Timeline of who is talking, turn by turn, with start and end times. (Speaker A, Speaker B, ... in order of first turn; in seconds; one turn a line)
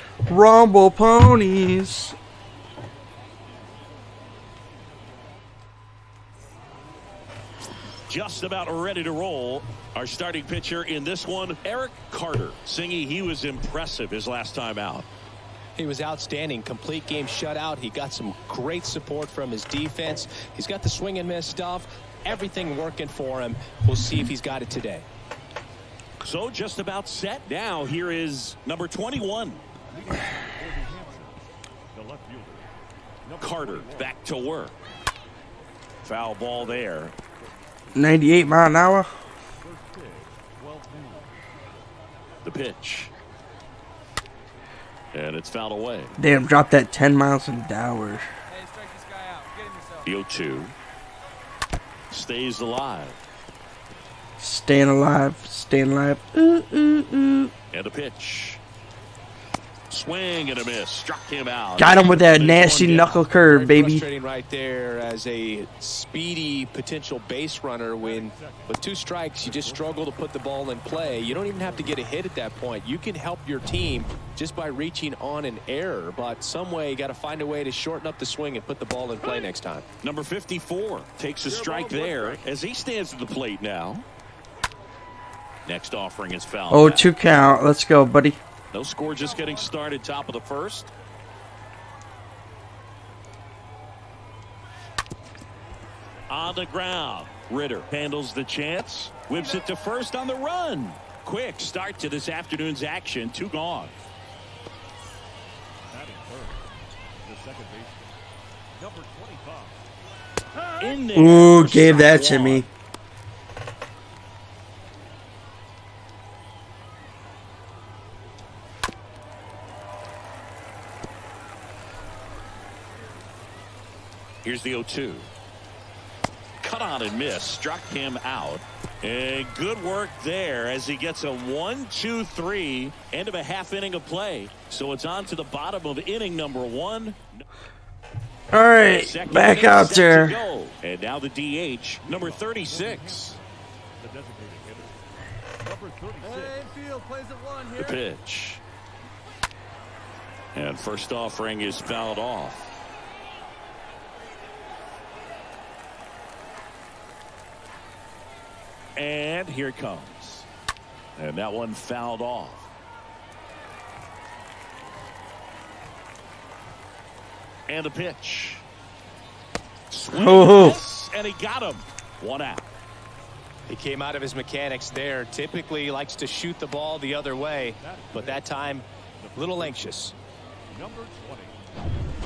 Speaker A: 0.3-2.2
Speaker B: 8.1-15.1
Speaker C: 15.8-25.1
Speaker B: 26.2-29.6
Speaker D: 29.9-32.7
Speaker D: 33.2-34.2
Speaker B: 33.4-34.8
Speaker B: 36.0-37.1
Speaker A: 38.0-39.1
Speaker D: 39.6-41.4
Speaker B: 42.4-43.1
Speaker B: 45.1-46.1
Speaker A: 46.2-48.3
Speaker E: 48.5-50.1
Speaker B: 50.1-50.8
Speaker B: 52.1-53.2
Speaker A: 54.4-57.5
Speaker B: 57.7-58.6
Speaker B: 59.9-63.1
Speaker A: 61.8-64.0
Speaker C: 63.1-79.8
Speaker D: 68.0-72.1
Speaker B: 80.0-84.1
Speaker E: 81.5-82.4
Speaker B: 85.7-87.1
Speaker A: 86.7-88.4
Speaker B: 88.7-90.9
Speaker E: 89.0-89.7
Speaker B: 96.3-103.9
Speaker D: 105.9-108.1
Speaker D: 108.8-109.8
Speaker B: 110.8-112.7
Speaker A: 111.1-112.7
Speaker B: 124.4-125.3
Speaker B: 126.6-137.4
Speaker A: 138.5-140.4
Speaker B: 138.9-143.4
Speaker D: 142.0-145.1
Speaker D: 145.6-146.7
Speaker E: 146.2-148.0
Speaker B: 147.8-148.6
Speaker B: 150.6-152.7
Speaker B: 159.0-160.5
Speaker B: 161.2-162.7
Speaker B: 167.7-168.6
Speaker B: 169.9-172.7
Speaker A: 170.1-170.8
Speaker C: 173.7-180.2
Speaker D: 177.8-178.6
Speaker D: 179.2-180.0
Speaker D: 180.7-182.0